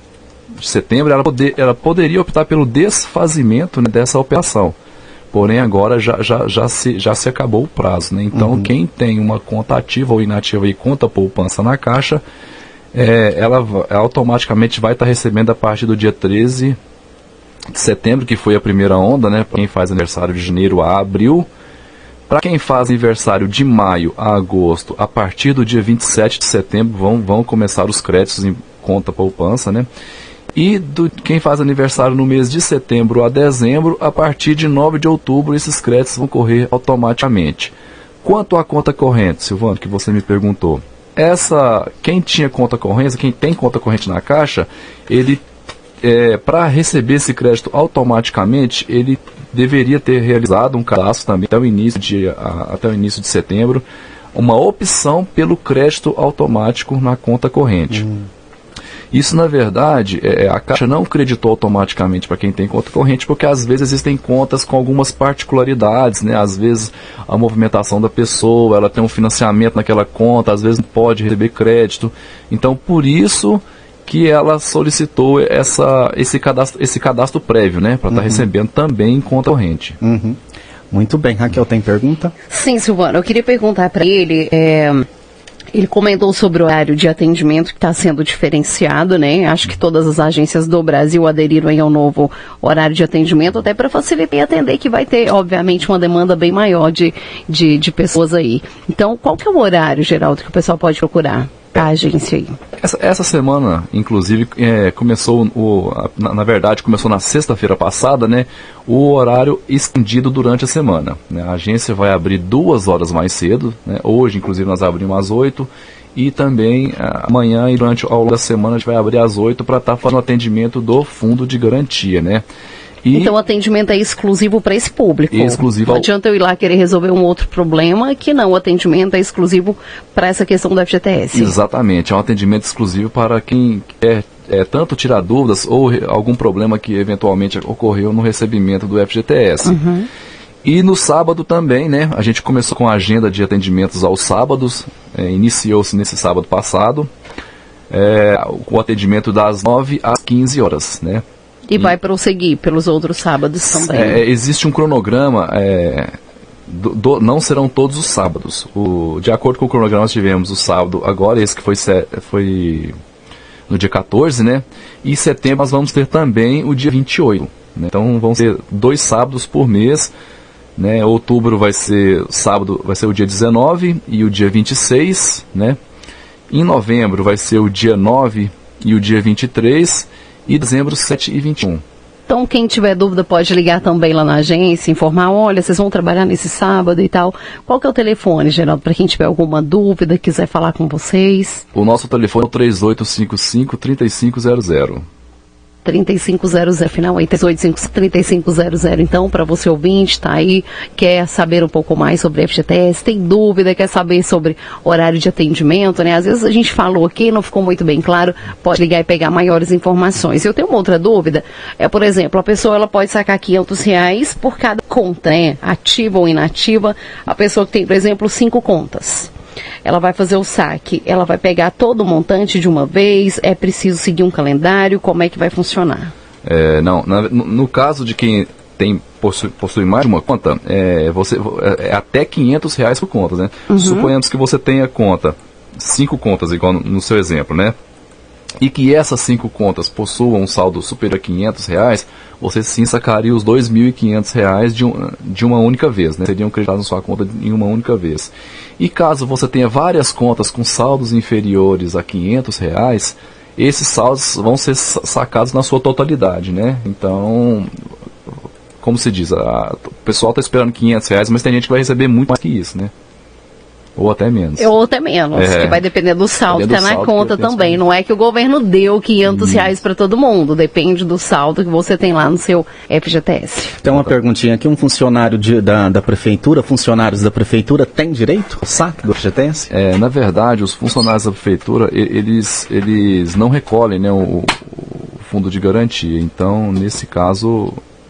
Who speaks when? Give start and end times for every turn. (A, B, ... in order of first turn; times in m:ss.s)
0:00.6-0:04.8 A
0:05.3-0:12.2 A
0:08.3-0:08.7 B
0:12.9-0:16.8 A
0:17.7-0:21.5 A
0:22.3-0:29.9 A
0:30.6-0:37.7 A
0:38.2-0:45.4 A
0:46.0-0:58.0 A
0:57.9-0:58.3 B
0:59.1-1:20.0 A
1:18.1-1:18.5 B
1:20.0-1:20.4 B
1:20.9-1:22.3 B
1:22.5-1:25.1 C
1:25.7-1:42.6 C
1:42.8-2:02.4 A
2:03.0-2:03.3 A
2:03.1-2:11.6 C
2:05.3-2:06.1 A
2:11.3-2:19.8 A
2:19.6-2:20.1 C
2:20.6-2:27.1 A
2:27.9-2:31.2 A
2:31.7-2:34.2 C
2:33.8-2:36.1 A
2:36.7-2:43.0 A
2:43.7-2:50.1 A
2:50.8-2:55.8 A
2:56.5-3:01.8 A
3:02.3-3:11.6 C
3:11.7-3:15.0 A
3:15.8-3:39.3 C
3:39.8-3:46.1 C
3:46.4-3:57.8 A
3:53.7-3:54.1 C
3:58.6-4:17.7 A
4:18.8-4:22.9 A
4:24.0-4:24.7 A
4:24.6-4:33.8 C
4:25.4-4:25.8 A
4:26.5-4:27.8 A
4:29.3-4:29.7 A
4:33.8-4:39.7 B
4:39.7-4:47.8 A